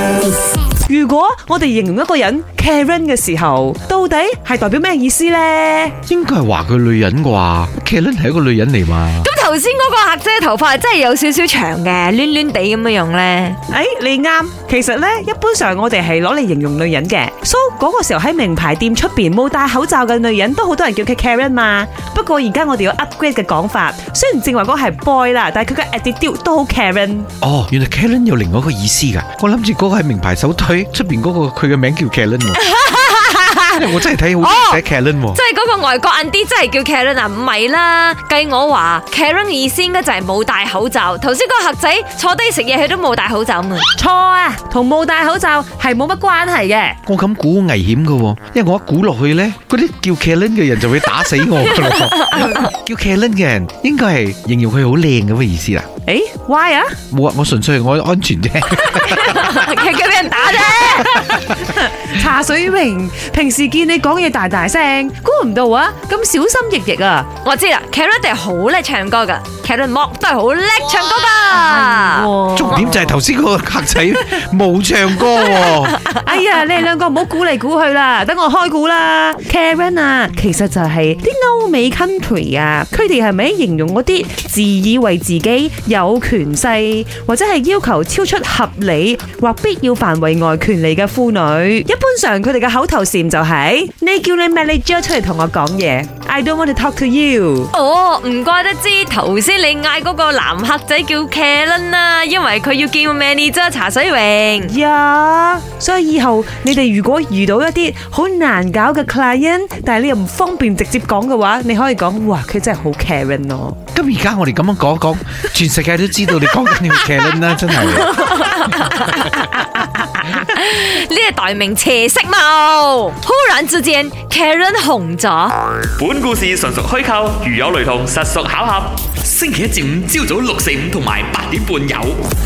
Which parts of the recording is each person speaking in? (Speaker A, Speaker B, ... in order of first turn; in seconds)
Speaker A: 0.8-6.0, 13.7-27.3, 44.0-47.0, 56.1-57.0, 60.4-67.3, 71.5-73.0, 76.1-97.7, 104.6-113.8
Speaker B: 6.1-9.3, 27.4-32.6, 33.7-35.4, 47.1-55.9, 57.1-59.6, 72.5-76.0, 113.9-118.3
Speaker C: 9.2-13.6, 32.6-33.9, 34.4-43.9, 52.1-52.6, 58.9-61.3, 67.4-73.0, 97.7-104.7, 117.9-125.6
Speaker D: 126.0-132.2